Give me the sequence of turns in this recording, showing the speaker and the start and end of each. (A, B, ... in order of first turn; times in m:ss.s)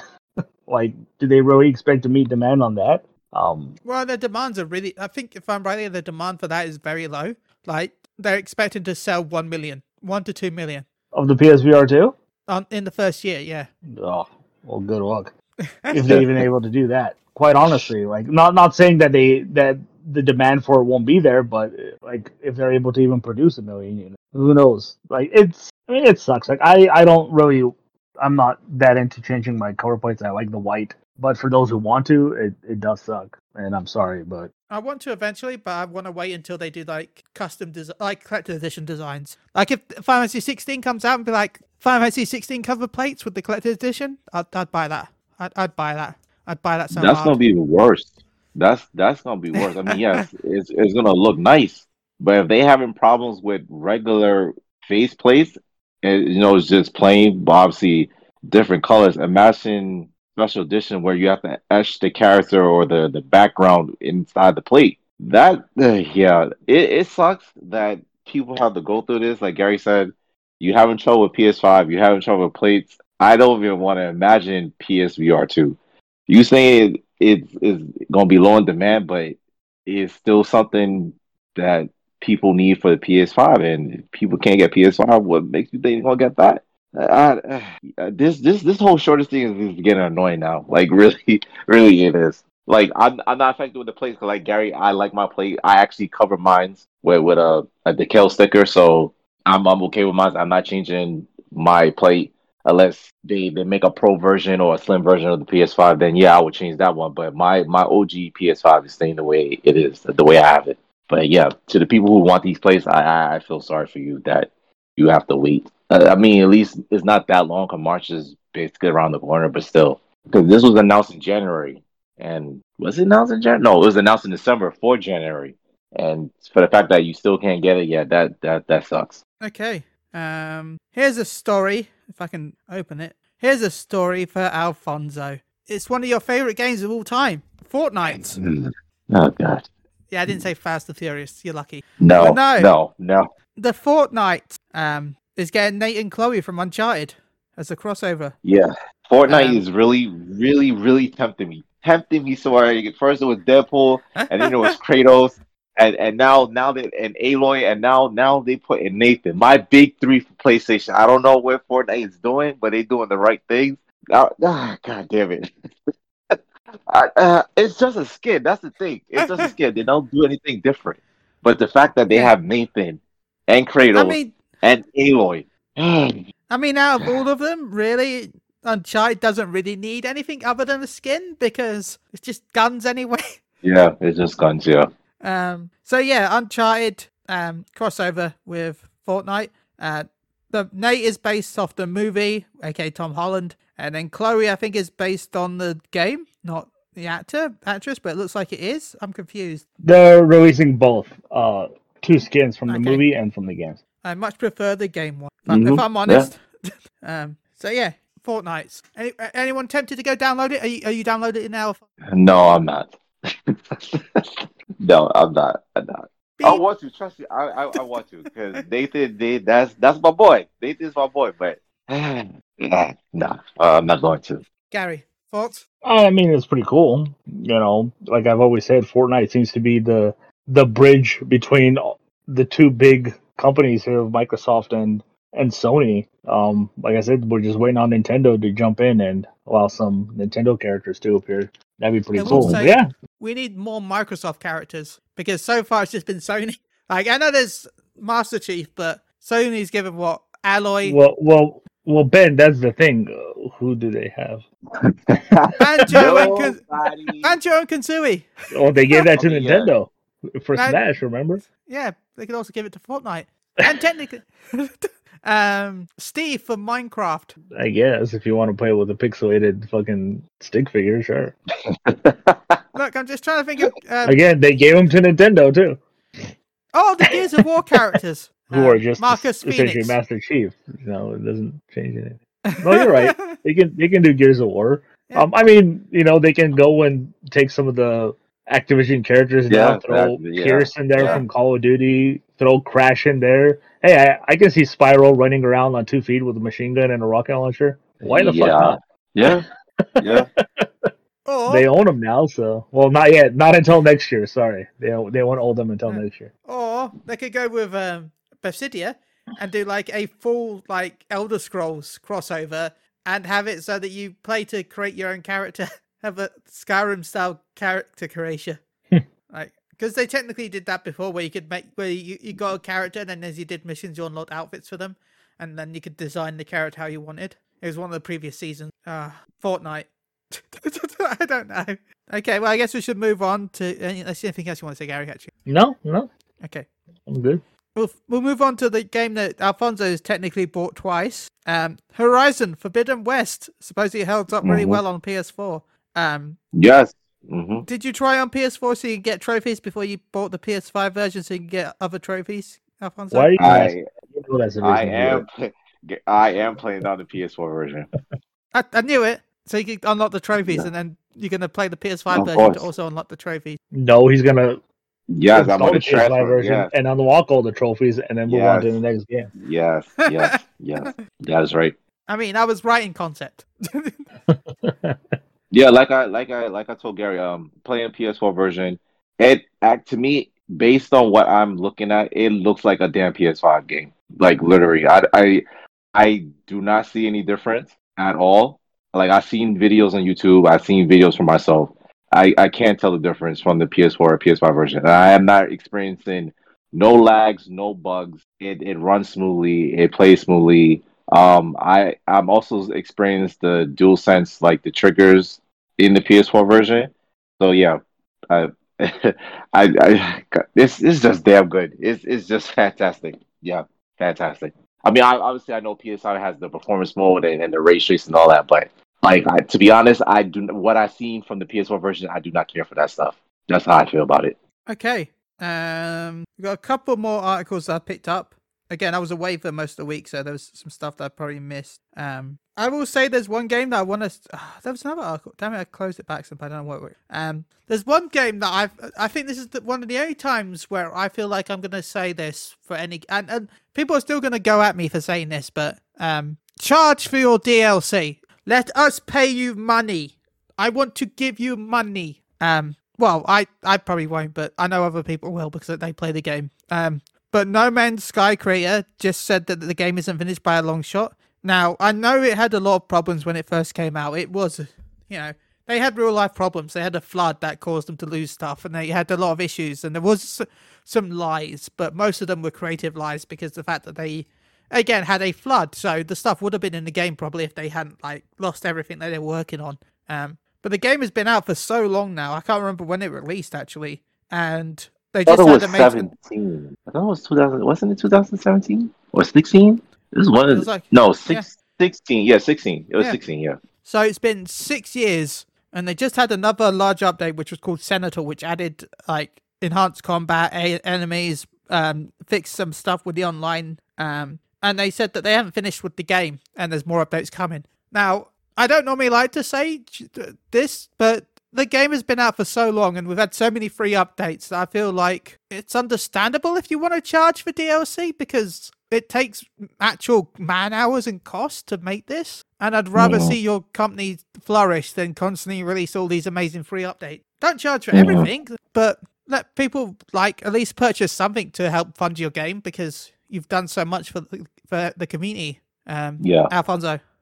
0:00.7-0:03.8 A
0:03.8-0:10.9 B
0:11.1-0:12.2 A
0:12.5-0:13.7 B
0:13.9-0:15.3 A
0:15.9-0:34.5 A
0:34.7-0:47.4 B
0:46.9-1:15.8 C
0:49.6-0:50.3 B
1:16.3-2:09.2 C
2:09.4-2:18.4 B
2:18.2-2:19.7 C
2:20.1-2:22.7 B
2:22.0-2:23.3 C
2:23.6-2:28.4 B
2:28.4-2:45.5 C
2:29.3-2:29.6 B
2:34.2-2:34.8 B
2:46.9-2:56.2 C
2:49.2-2:49.5 B
2:53.9-2:54.4 B
2:56.5-3:03.4 B
3:03.6-3:04.9 C
3:05.2-3:19.6 B
3:19.8-3:23.8 A
3:22.7-3:23.0 B
3:24.0-3:31.8 B
3:25.5-3:26.3 C
3:32.1-3:44.4 C
3:36.4-3:36.6 B
3:44.7-3:45.6 B
3:45.8-4:02.9 A
4:02.2-4:11.0 B
4:02.3-4:02.6 C
4:10.8-4:14.4 A
4:14.8-4:17.4 C
4:15.6-4:16.6 B
4:15.9-4:16.3 A
4:17.2-4:18.3 B
4:18.5-4:21.4 A
4:19.1-4:19.7 C
4:20.6-4:20.8 B
4:21.5-4:27.3 B
4:27.5-4:31.4 A
4:31.7-4:32.6 C
4:32.8-4:34.2 B
4:34.0-4:35.8 A
4:36.7-4:40.0 B
4:38.5-4:59.4 A
4:42.5-4:43.4 B
4:49.5-4:51.2 C
4:51.0-4:51.2 B
4:58.1-4:59.4 C
5:00.0-5:00.9 A
5:00.0-5:00.3 C
5:01.3-5:01.7 B
5:01.5-5:06.3 A
5:05.9-5:18.6 B
5:19.3-5:35.3 B
5:35.5-5:36.1 A
5:36.4-5:36.7 B
5:37.1-5:37.4 A
5:37.8-5:46.4 B
5:44.4-5:44.8 C
5:46.5-5:47.7 C
5:47.7-5:53.3 B
5:53.1-5:55.3 A
5:53.4-5:53.8 C
5:54.6-5:57.9 C
5:58.5-6:03.6 B
6:00.4-6:00.7 C
6:02.1-6:02.7 C
6:03.7-6:04.6 A
6:05.1-6:06.7 C
6:05.3-6:09.3 A
6:08.3-6:08.8 C
6:09.4-6:11.8 C
6:10.2-6:10.9 B
6:12.1-6:14.1 B
6:14.3-6:15.1 A
6:15.5-6:25.4 C
6:25.9-6:47.8 C
6:48.3-7:04.4 C
7:04.7-8:06.1 B
8:05.3-8:13.6 C
8:10.5-8:11.5 B
8:13.8-8:57.0 B
8:43.0-8:43.4 C
8:47.9-8:48.3 C
8:56.2-8:56.5 C